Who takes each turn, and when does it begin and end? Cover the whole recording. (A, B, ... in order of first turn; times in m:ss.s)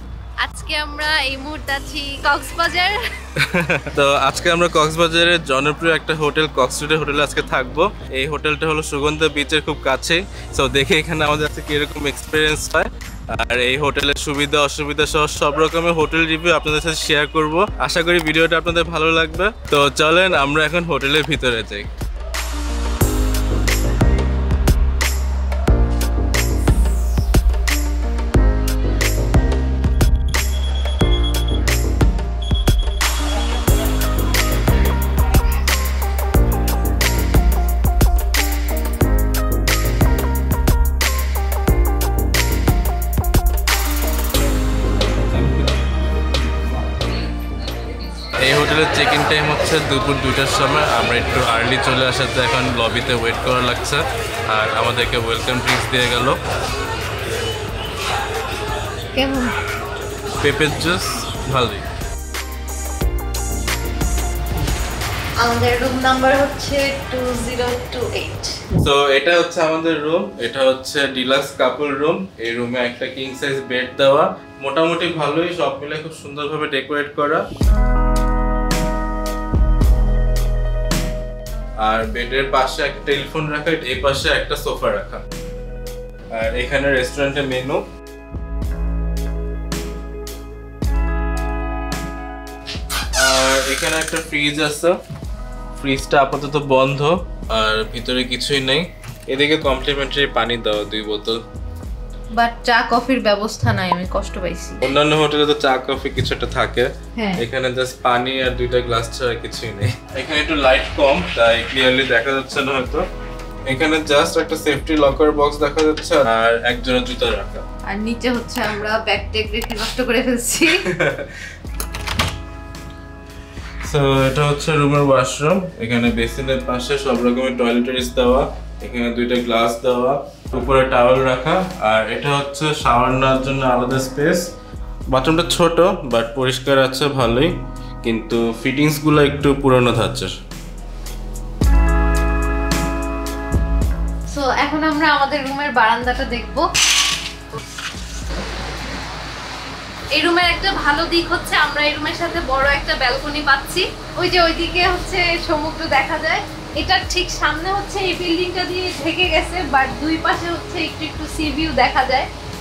0:00.4-0:03.0 A
0:03.4-0:21.9 B
0:48.4-0:56.4 B
0:59.1-0:59.6 A
1:00.4-1:01.8 B
1:05.4-1:08.5 A
1:08.8-1:17.4 B
1:21.8-1:25.2 B
1:26.3-1:27.8 B
1:33.1-1:35.0 B
1:35.8-1:41.4 B
1:42.4-1:44.8 A
1:44.8-1:53.1 B
1:47.2-1:47.4 A
1:53.6-1:57.6 B
1:57.9-2:00.8 A
2:00.8-2:01.3 B
2:03.8-2:14.5 B
2:15.1-2:20.3 B
2:24.3-2:26.7 A
2:30.2-2:42.3 A